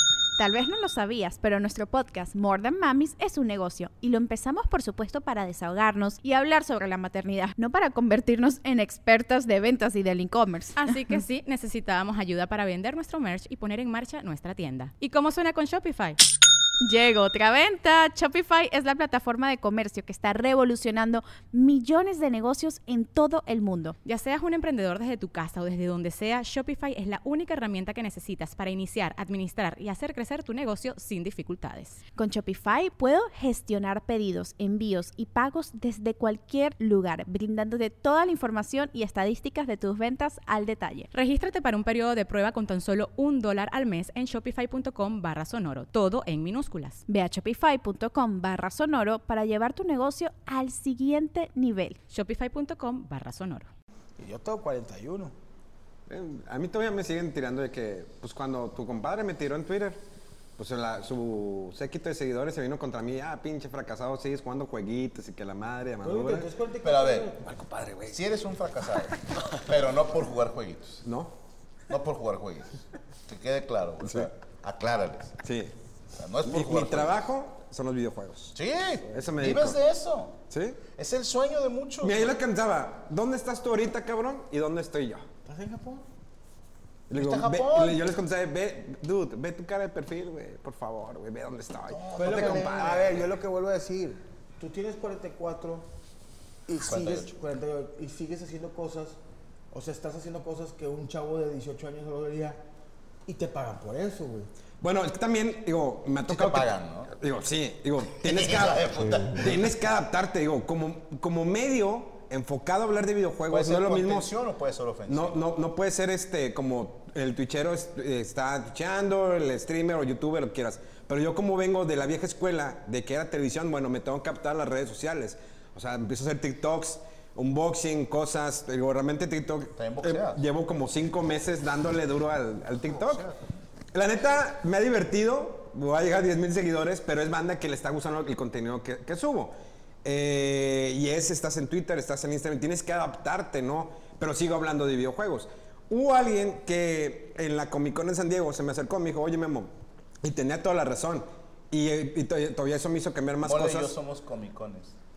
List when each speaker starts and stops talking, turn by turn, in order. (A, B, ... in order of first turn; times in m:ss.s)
0:00.4-0:11.1 A
0:10.8-0:16.2 B
0:16.8-0:24.0 A
0:24.0-0:32.0 B
0:32.2-0:41.1 A
0:41.1-0:47.0 B
0:47.1-0:52.0 A
0:52.1-0:53.7 B
0:54.2-0:55.3 C
0:56.1-1:00.0 D
1:00.6-1:06.5 D
1:06.0-1:07.6 C
1:06.8-1:07.3 E
1:08.0-1:11.0 E
1:11.0-1:11.3 D
1:11.9-1:12.7 E
1:13.3-1:15.3 E
1:14.0-1:14.3 D
1:15.4-1:15.7 D
1:16.2-1:17.2 E
1:16.4-1:18.5 D
1:18.5-1:20.4 E
1:19.1-1:19.8 D
1:20.5-1:20.8 D
1:21.0-1:22.3 E
1:22.0-1:25.2 D
1:25.5-1:26.0 C
1:27.1-1:33.3 D
1:27.2-1:28.0 E
1:31.9-1:33.0 E
1:32.1-1:35.8 C
1:36.7-1:39.2 C
1:36.8-1:37.3 E
1:39.7-1:42.6 C
1:43.2-1:44.5 C
1:44.8-1:54.3 D
1:46.3-1:47.1 E
1:48.2-1:49.6 E
1:53.5-1:55.4 E
1:55.1-2:13.2 D
2:09.8-2:10.4 E
2:12.9-2:13.5 E
2:13.9-2:33.9 D
2:33.4-2:34.9 E